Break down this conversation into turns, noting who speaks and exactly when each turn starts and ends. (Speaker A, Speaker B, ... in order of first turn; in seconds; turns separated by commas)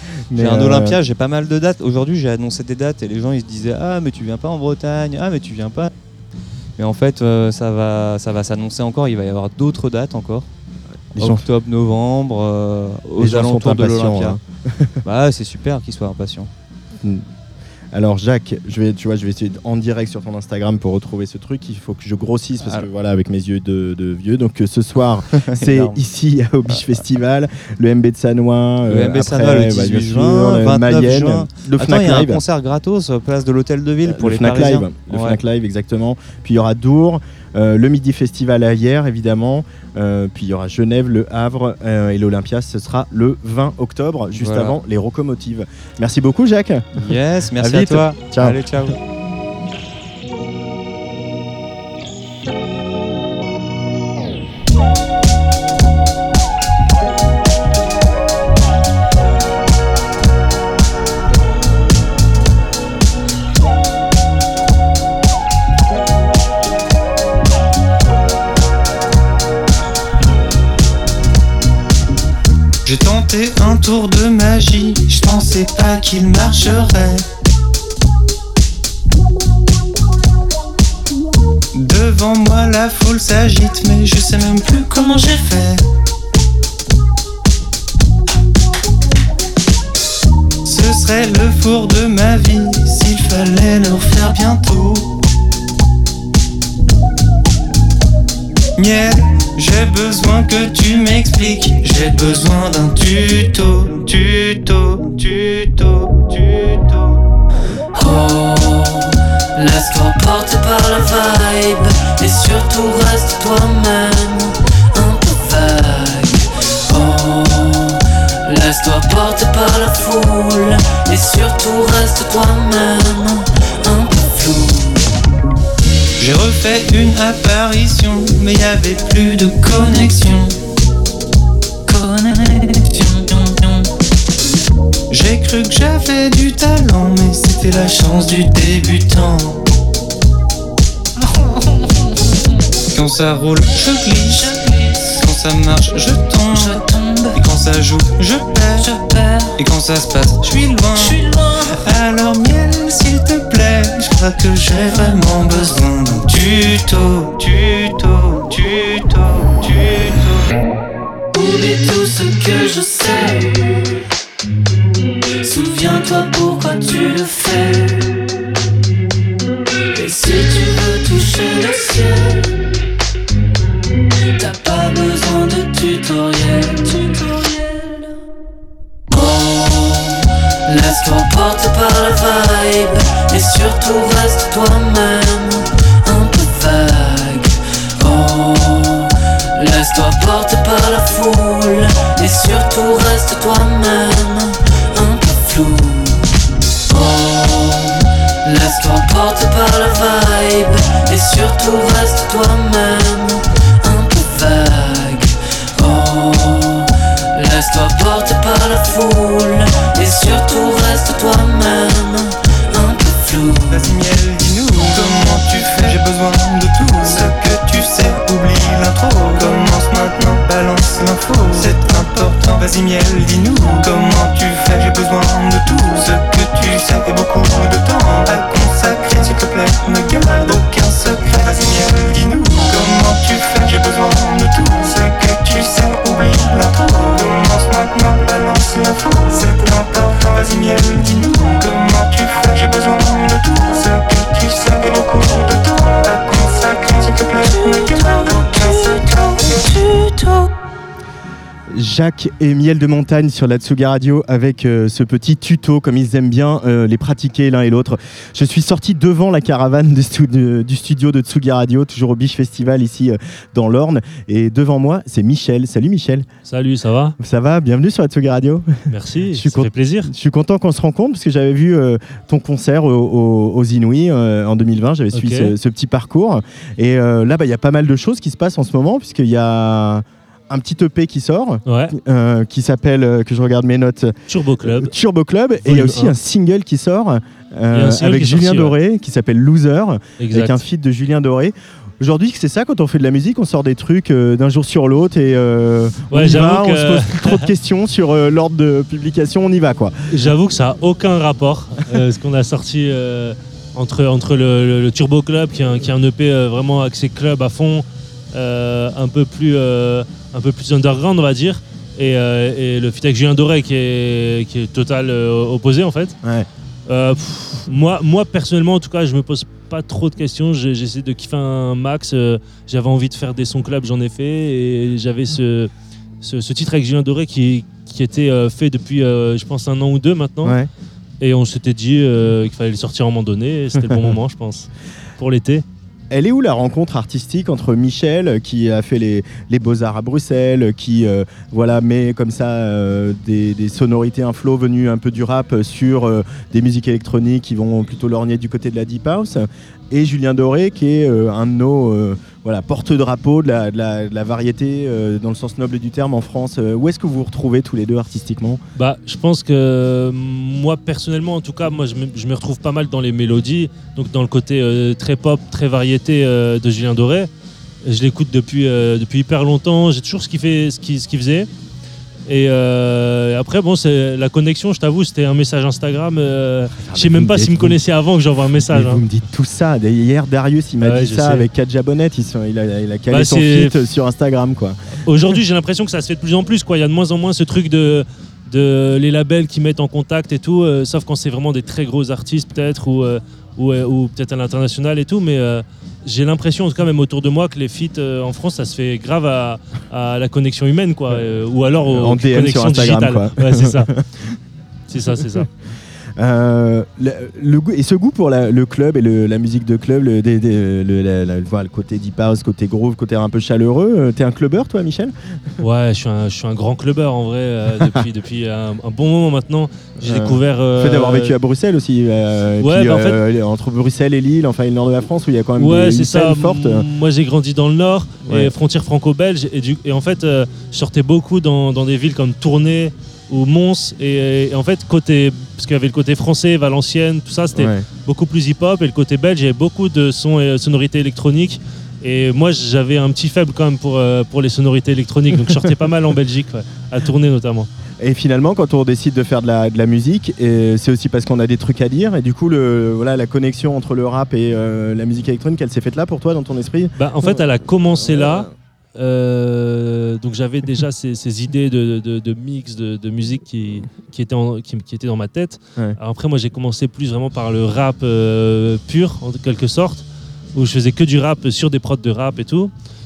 Speaker A: 0.3-1.0, Speaker B: 0.3-5.9, Speaker B: 6.8-10.5, Speaker A: 11.1-11.4, Speaker B: 11.2-14.4, Speaker A: 13.2-14.9, Speaker B: 15.0-16.5, Speaker A: 17.0-17.3, Speaker A: 17.9-32.4, Speaker B: 22.6-22.9, Speaker B: 25.4-26.0, Speaker B: 28.9-35.4, Speaker A: 34.0-46.8, Speaker B: 44.3-44.8, Speaker B: 47.0-49.0, Speaker A: 47.6-48.6, Speaker C: 72.8-77.2, Speaker C: 81.7-85.8, Speaker C: 90.6-95.2, Speaker C: 98.8-107.2, Speaker D: 108.0-109.0, Speaker D: 109.5-116.3, Speaker D: 116.9-117.9, Speaker D: 118.5-124.9, Speaker C: 126.2-130.6, Speaker C: 131.9-133.8, Speaker C: 135.1-139.6, Speaker C: 142.9-151.2, Speaker C: 151.8-160.5, Speaker D: 161.4-163.5, Speaker D: 165.4-167.9, Speaker D: 169.9-172.4, Speaker D: 174.4-177.8, Speaker D: 179.1-180.1, Speaker D: 180.7-196.2, Speaker D: 196.9-197.9, Speaker D: 198.4-213.7, Speaker C: 213.7-244.3, Speaker C: 248.0-248.7, Speaker A: 251.7-266.3, Speaker E: 266.4-267.1, Speaker A: 267.2-268.7, Speaker E: 268.9-270.1, Speaker A: 269.3-300.0, Speaker E: 275.1-275.5, Speaker E: 281.7-281.9, Speaker E: 284.3-284.9, Speaker E: 285.6-286.1, Speaker E: 287.7-288.7, Speaker E: 290.2-290.6, Speaker E: 296.1-297.5, Speaker E: 300.1-316.2, Speaker E: 316.9-325.7, Speaker E: 326.2-330.6, Speaker A: 330.4-330.7, Speaker E: 331.2-334.7, Speaker E: 335.2-335.6, Speaker A: 336.1-358.6, Speaker E: 358.8-367.3, Speaker E: 367.8-371.5, Speaker E: 372.3-379.0, Speaker A: 376.8-377.8, Speaker A: 378.6-384.8, Speaker E: 380.8-381.4, Speaker E: 383.1-383.7, Speaker E: 385.1-403.9, Speaker A: 401.9-404.0, Speaker E: 404.9-405.5, Speaker A: 406.2-415.1, Speaker E: 415.6-421.3, Speaker A: 420.0-426.8, Speaker E: 422.6-423.2, Speaker E: 425.6-447.7, Speaker A: 428.2-428.5, Speaker A: 437.5-437.9, Speaker A: 448.0-458.5, Speaker E: 457.0-472.7